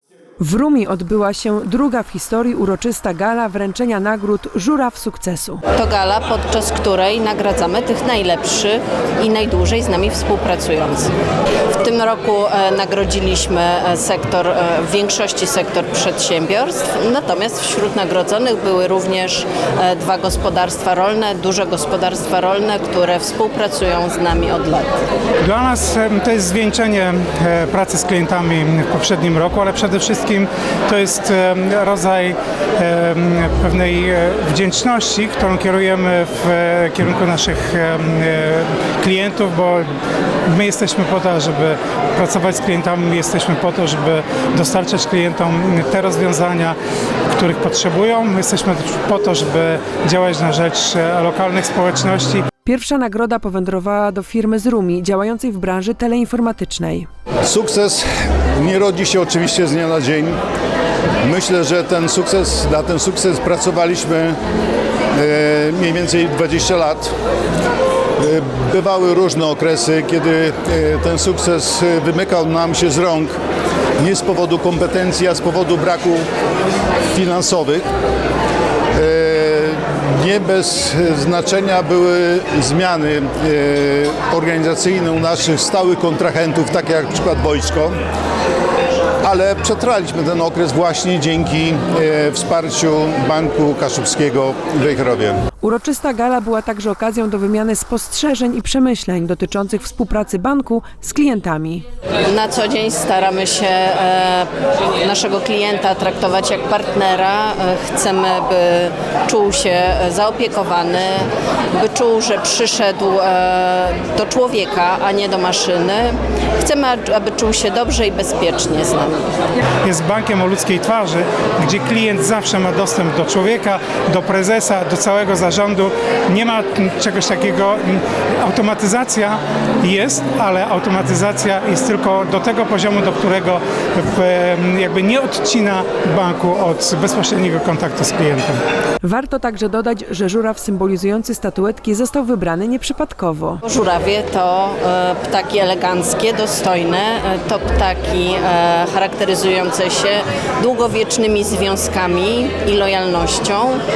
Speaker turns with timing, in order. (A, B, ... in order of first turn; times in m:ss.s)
0:00.4-0:05.6 A
0:05.7-0:11.1 B
0:11.7-0:24.9 B
0:25.4-0:39.9 C
0:40.5-0:46.8 C
0:47.3-0:52.4 C
0:52.6-0:57.1 A
0:57.4-0:58.1 D
0:58.6-1:00.4 D
1:01.2-1:04.4 D
1:05.1-1:07.1 D
1:08.2-1:13.4 D
1:14.0-1:16.3 D
1:17.1-1:17.9 D
1:19.0-1:27.9 D
1:29.2-1:35.4 D
1:35.6-1:41.8 A
1:42.2-1:59.3 B
1:59.8-2:18.6 C
2:19.0-2:23.6 A
2:23.6-2:33.8 B